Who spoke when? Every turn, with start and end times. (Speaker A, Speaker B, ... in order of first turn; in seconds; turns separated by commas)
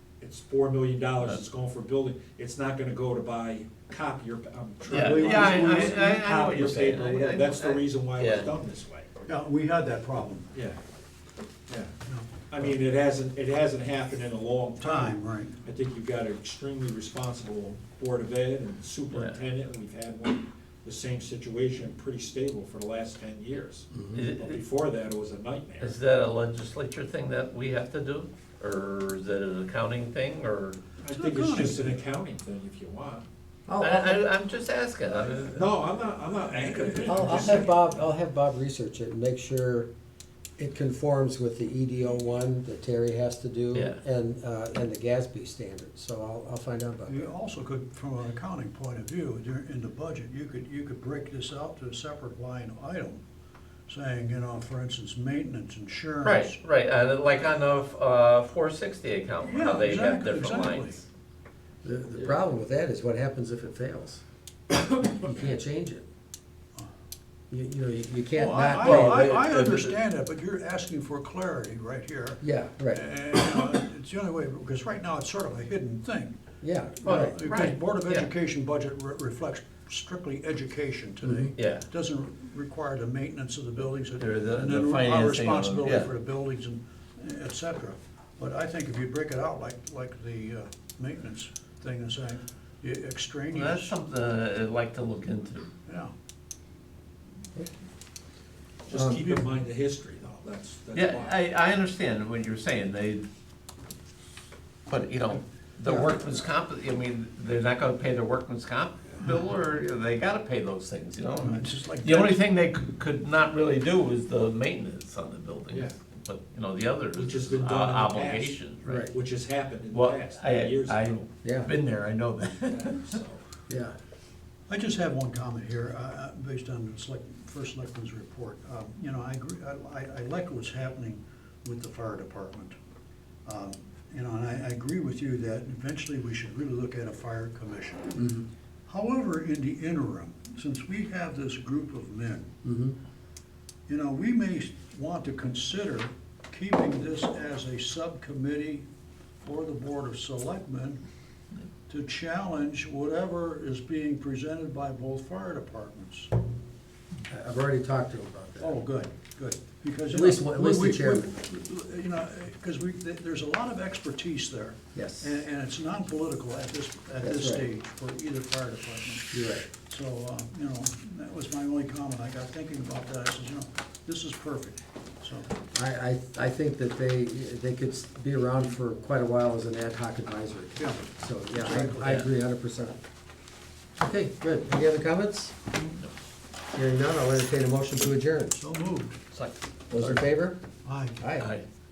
Speaker A: 0.2-9.1, Speaker B: 4.9-8.5, Speaker C: 4.9-6.2, Speaker C: 9.2-10.5, Speaker A: 10.5-10.8, Speaker A: 11.7-11.9, Speaker C: 12.0-12.7, Speaker A: 12.5-25.9, Speaker C: 14.8-15.5, Speaker D: 23.9-24.2, Speaker B: 24.1-24.6, Speaker B: 25.8-30.8, Speaker A: 31.0-33.2, Speaker C: 31.1-32.0, Speaker D: 33.7-34.3, Speaker B: 33.8-35.7, Speaker A: 35.5-37.8, Speaker C: 37.0-37.6, Speaker D: 37.0-39.9, Speaker D: 40.6-47.3, Speaker B: 43.7-44.0, Speaker C: 47.1-53.2, Speaker C: 53.9-56.6, Speaker B: 56.2-61.0, Speaker C: 59.4-61.0, Speaker D: 61.8-64.2, Speaker D: 65.2-66.0, Speaker D: 67.5-69.4, Speaker C: 68.3-72.4, Speaker B: 68.8-70.0, Speaker D: 72.4-73.0, Speaker C: 72.9-76.3, Speaker D: 76.6-77.4, Speaker C: 77.0-93.9, Speaker B: 77.0-78.3, Speaker D: 81.2-81.5, Speaker B: 81.5-81.9, Speaker B: 84.1-86.1, Speaker B: 93.5-95.7, Speaker C: 95.9-96.1, Speaker A: 98.9-101.4, Speaker D: 98.9-99.3, Speaker B: 100.9-103.2, Speaker B: 104.9-119.1, Speaker C: 111.4-112.4, Speaker A: 115.7-116.0, Speaker A: 117.1-121.2, Speaker D: 118.8-119.1, Speaker B: 119.9-123.1, Speaker D: 121.4-121.7, Speaker A: 122.7-123.4, Speaker D: 123.7-123.9, Speaker C: 124.7-132.7, Speaker C: 133.4-138.2, Speaker D: 138.2-138.5, Speaker C: 138.9-142.5, Speaker D: 142.6-142.9, Speaker C: 143.9-148.8, Speaker C: 149.4-151.0, Speaker C: 151.9-156.3, Speaker D: 157.3-158.8, Speaker C: 158.6-175.5, Speaker D: 160.1-161.3, Speaker D: 164.9-165.3, Speaker D: 167.2-167.6, Speaker D: 169.3-169.7, Speaker D: 175.7-183.0, Speaker C: 180.8-182.2, Speaker D: 183.9-185.6, Speaker B: 185.8-186.1, Speaker D: 186.7-188.6, Speaker C: 188.6-189.2, Speaker B: 189.3-190.2, Speaker D: 189.9-190.6, Speaker C: 190.8-191.2, Speaker D: 191.2-191.5, Speaker B: 191.4-191.6